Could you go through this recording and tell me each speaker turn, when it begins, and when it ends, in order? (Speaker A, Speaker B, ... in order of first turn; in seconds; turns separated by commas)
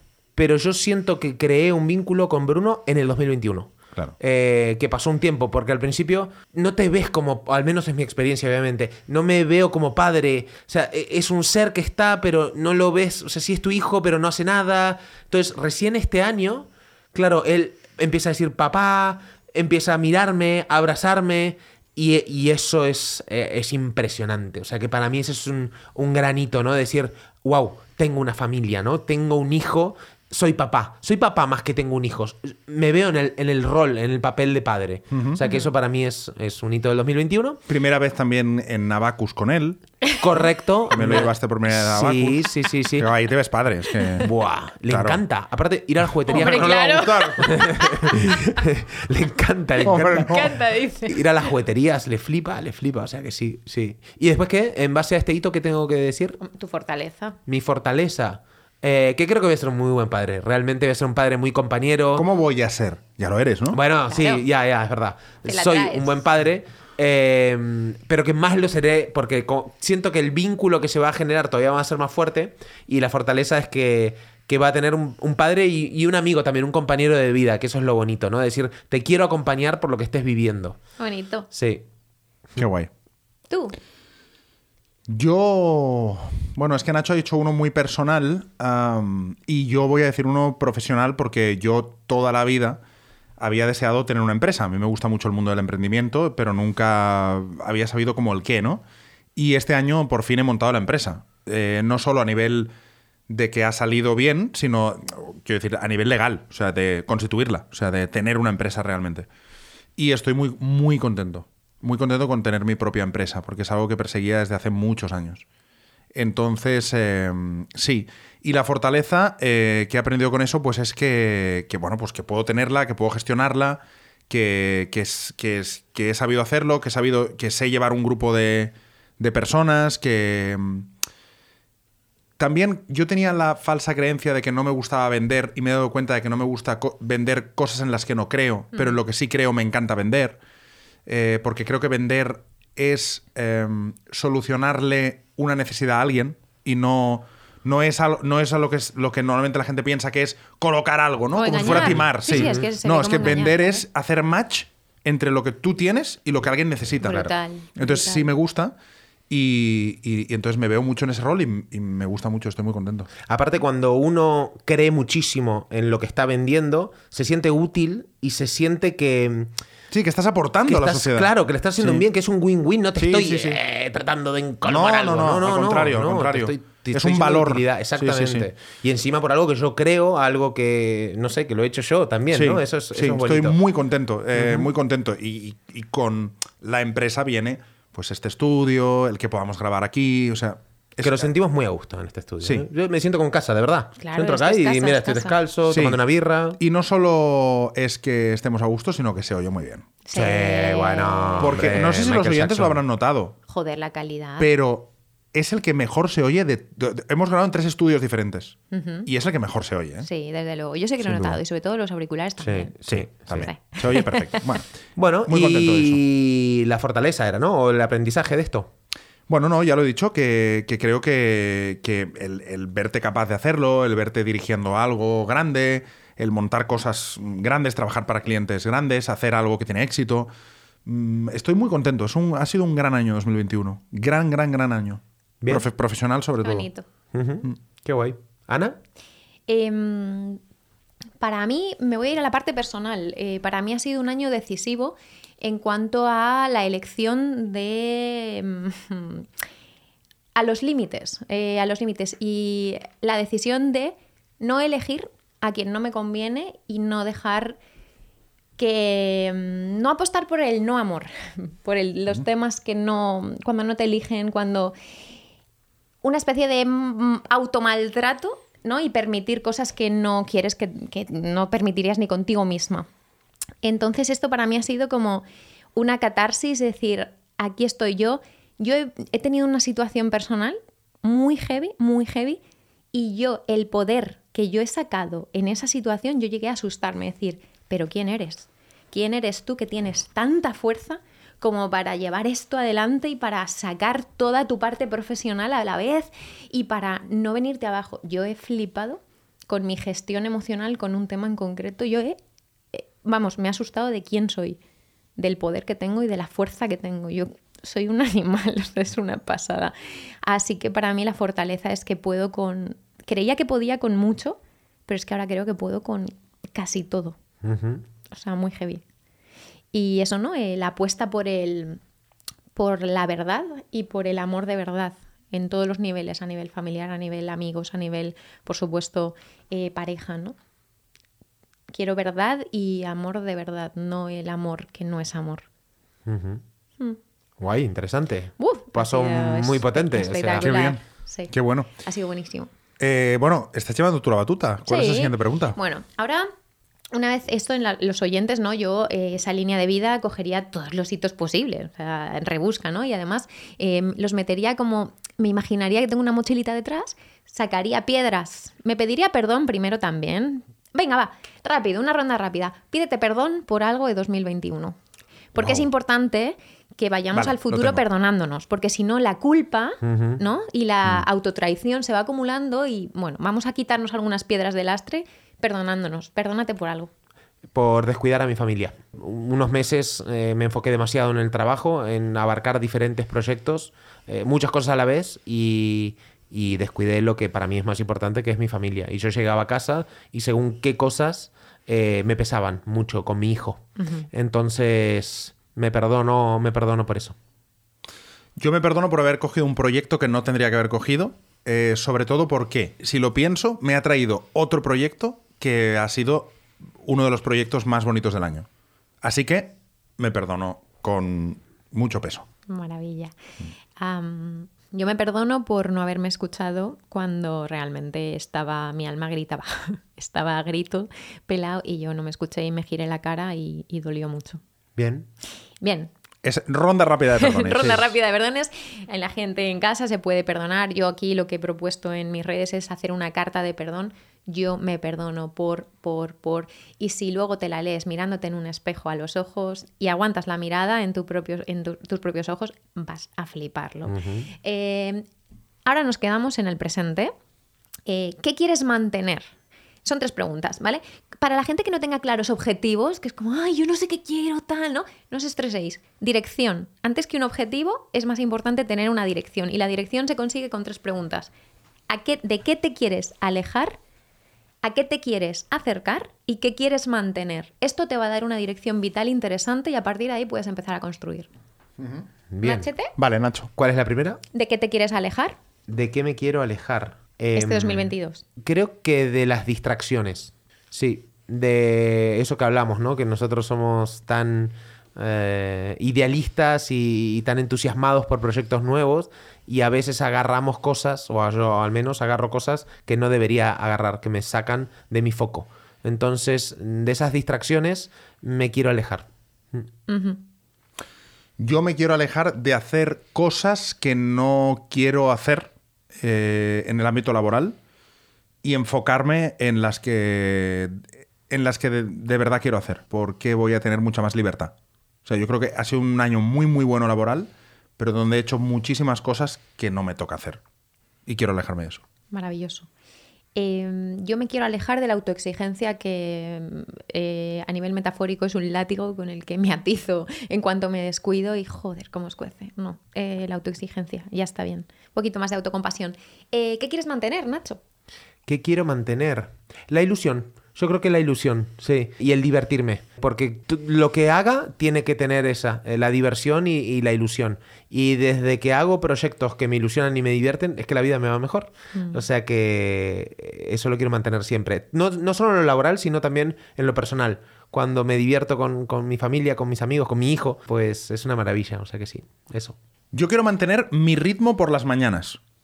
Speaker A: 0.3-37.6, Speaker B: 35.1-35.4, Speaker B: 37.7-39.8, Speaker A: 40.2-43.1, Speaker B: 40.9-44.3, Speaker A: 44.2-50.5, Speaker B: 44.9-45.2, Speaker B: 46.3-47.6, Speaker C: 46.3-48.6, Speaker B: 49.8-50.5, Speaker C: 49.9-51.2, Speaker A: 51.0-56.4, Speaker C: 56.4-57.4, Speaker A: 57.5-62.3, Speaker B: 62.1-63.8, Speaker A: 63.7-80.8, Speaker C: 64.1-64.4, Speaker C: 65.5-66.2, Speaker C: 81.0-81.5, Speaker A: 81.5-81.8, Speaker B: 82.6-82.9, Speaker C: 83.5-83.8, Speaker B: 85.1-92.8, Speaker B: 93.4-98.8, Speaker B: 99.3-102.7, Speaker B: 103.3-109.3, Speaker B: 110.0-115.4, Speaker B: 116.1-130.9, Speaker B: 132.4-140.4, Speaker B: 141.1-158.8, Speaker C: 151.3-153.8, Speaker A: 151.6-152.7, Speaker C: 157.0-158.3, Speaker A: 157.0-157.3, Speaker B: 159.3-163.1, Speaker A: 163.2-169.5, Speaker B: 169.9-172.0, Speaker A: 170.7-183.6, Speaker B: 172.9-173.6, Speaker B: 174.6-178.5, Speaker B: 182.3-191.3, Speaker A: 184.3-184.7, Speaker A: 191.0-196.6, Speaker B: 192.4-192.7, Speaker C: 194.0-195.4, Speaker B: 195.7-196.0, Speaker B: 196.6-199.9, Speaker C: 200.0-201.6, Speaker A: 200.1-202.8, Speaker B: 201.4-203.3, Speaker C: 203.5-204.5, Speaker B: 204.4-210.1, Speaker C: 208.7-209.1, Speaker C: 210.0-212.8, Speaker A: 211.1-211.3, Speaker A: 212.4-213.5, Speaker B: 212.9-214.7, Speaker C: 213.3-214.6, Speaker A: 214.9-218.7, Speaker B: 215.2-216.0, Speaker B: 219.3-230.3, Speaker B: 230.8-236.7, Speaker C: 236.4-236.8, Speaker A: 237.1-238.8, Speaker C: 239.5-240.4, Speaker C: 241.2-249.3, Speaker C: 250.3-257.6, Speaker C: 258.6-264.7, Speaker C: 266.0-272.9, Speaker C: 273.6-282.4, Speaker C: 282.9-302.2, Speaker C: 302.7-304.6, Speaker C: 305.2-317.2, Speaker A: 317.4-317.8, Speaker C: 318.1-318.8, Speaker C: 319.7-321.8, Speaker C: 322.6-330.4, Speaker C: 331.7-335.4, Speaker A: 336.1-336.4, Speaker A: 337.4-340.6, Speaker C: 338.4-342.5, Speaker B: 340.4-341.7, Speaker B: 342.8-345.6, Speaker C: 344.6-346.3, Speaker C: 346.9-364.8, Speaker C: 365.3-376.9, Speaker B: 365.4-365.6, Speaker B: 367.1-367.8, Speaker A: 369.8-370.2, Speaker A: 377.5-397.1, Speaker C: 393.8-394.0, Speaker B: 398.4-408.5, Speaker B: 409.0-412.3, Speaker C: 412.5-413.1, Speaker C: 413.8-424.4, Speaker A: 424.8-425.1, Speaker C: 425.6-425.9, Speaker B: 426.2-427.9, Speaker C: 427.2-445.0, Speaker A: 443.9-444.3, Speaker C: 445.6-447.1, Speaker C: 447.9-449.3, Speaker C: 449.8-461.3, Speaker C: 461.9-463.8, Speaker C: 464.6-471.3, Speaker B: 471.8-472.1, Speaker A: 472.3-472.7, Speaker C: 472.4-472.9, Speaker B: 473.0-473.5, Speaker A: 473.6-474.2, Speaker C: 474.3-475.4, Speaker A: 475.7-499.6, Speaker C: 477.3-478.2, Speaker C: 499.9-500.2, Speaker B: 501.4-507.6, Speaker B: 508.4-514.5, Speaker B: 515.0-520.4, Speaker B: 521.0-521.8, Speaker C: 522.1-522.7, Speaker C: 523.4-537.6, Speaker A: 538.2-562.5, Speaker C: 551.7-552.0, Speaker B: 562.9-565.2